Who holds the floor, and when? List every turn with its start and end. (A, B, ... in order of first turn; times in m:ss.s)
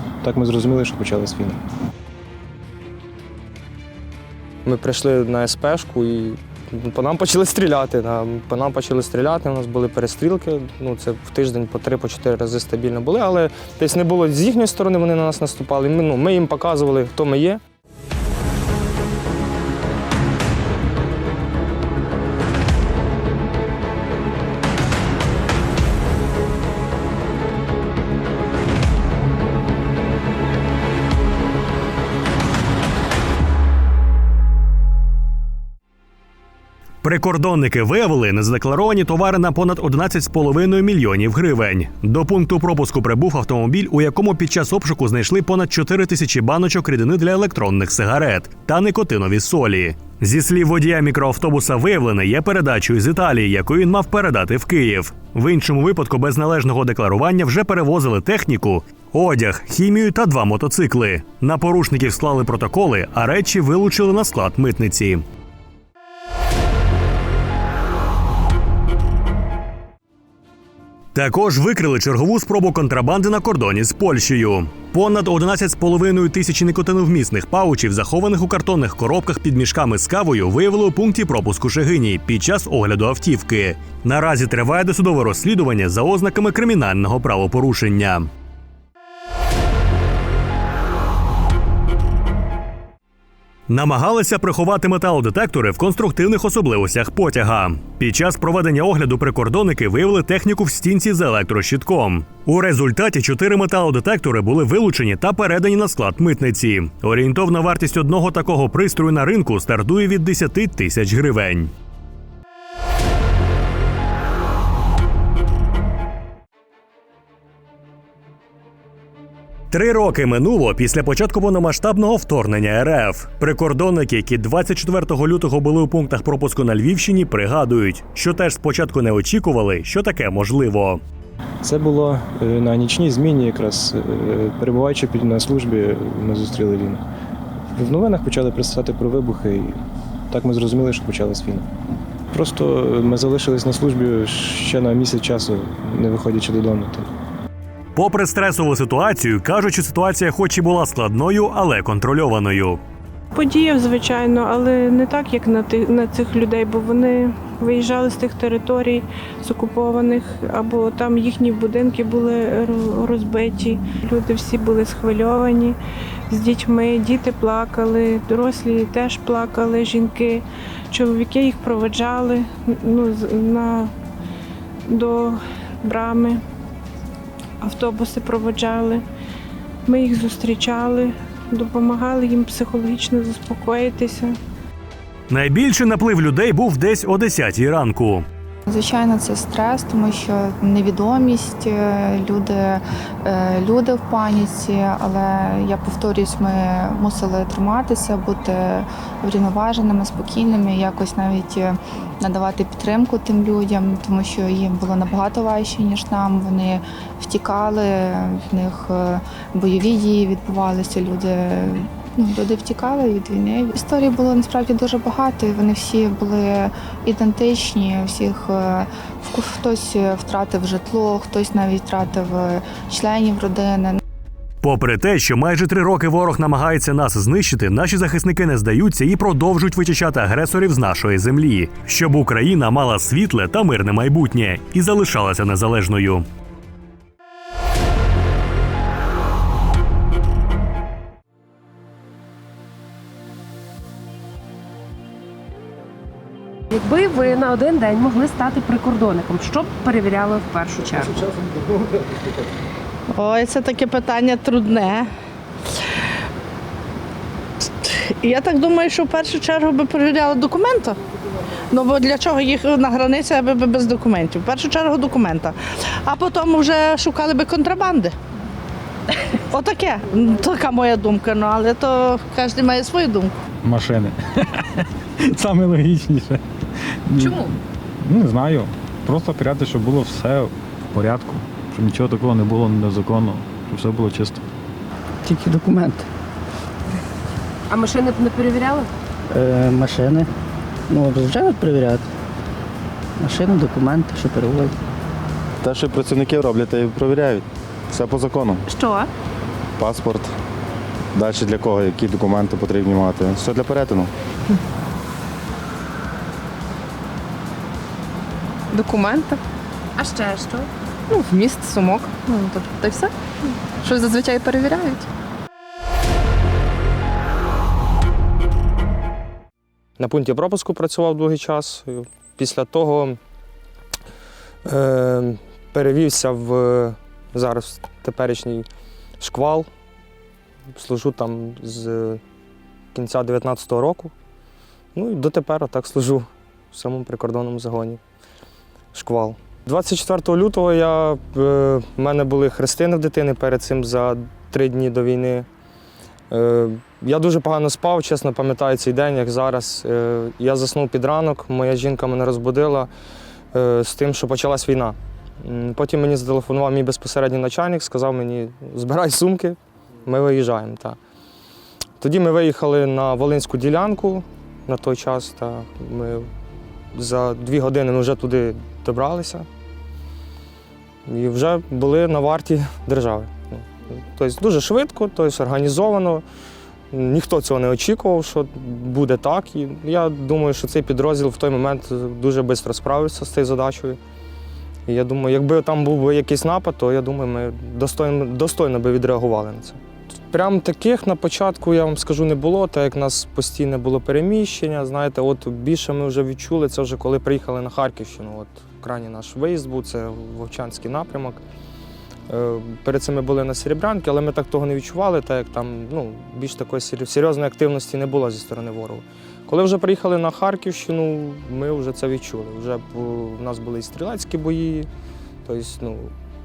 0:00.2-0:01.6 A
0:04.6-0:17.6 B
0:37.0-1:05.2 C
1:11.2-1:28.3 C
1:33.7-1:51.7 C
1:59.7-2:11.0 C
2:11.6-2:17.0 A
2:17.8-2:21.7 A
2:22.3-2:27.1 A
2:28.0-2:32.8 C
2:33.3-2:45.8 D
2:46.3-2:53.9 D
2:54.9-2:56.4 D
2:57.6-2:59.0 D
2:59.8-3:04.4 D
3:05.3-3:08.2 C
3:08.7-3:44.0 E
3:44.6-3:56.2 C
4:06.7-4:11.2 F
4:13.1-4:15.1 G
4:17.8-4:21.0 G
4:21.7-4:28.2 G
4:29.5-4:33.4 G
4:33.6-4:36.4 H
4:37.1-4:44.4 H
4:45.2-4:46.1 I
4:47.7-4:48.9 F
4:49.3-4:50.3 I
4:50.9-4:52.1 I
4:53.2-4:54.8 I
4:55.6-4:58.7 J
4:59.8-5:00.3 J
5:01.1-5:04.1 J
5:08.7-5:09.4 K
5:11.1-5:15.1 K
5:20.0-5:23.2 B
5:24.6-5:28.7 B
5:29.2-5:29.7 B
5:30.7-5:32.2 B
5:32.9-5:34.1 B
5:34.9-5:38.0 B
5:38.9-5:45.5 B
5:46.3-5:52.9 B
5:53.5-6:01.0 B
6:02.0-6:06.3 B
6:06.9-6:09.5 B
6:11.1-6:16.2 B
6:16.9-6:24.0 B
6:24.9-6:41.4 B
6:42.3-6:54.9 B
6:55.4-6:56.1 B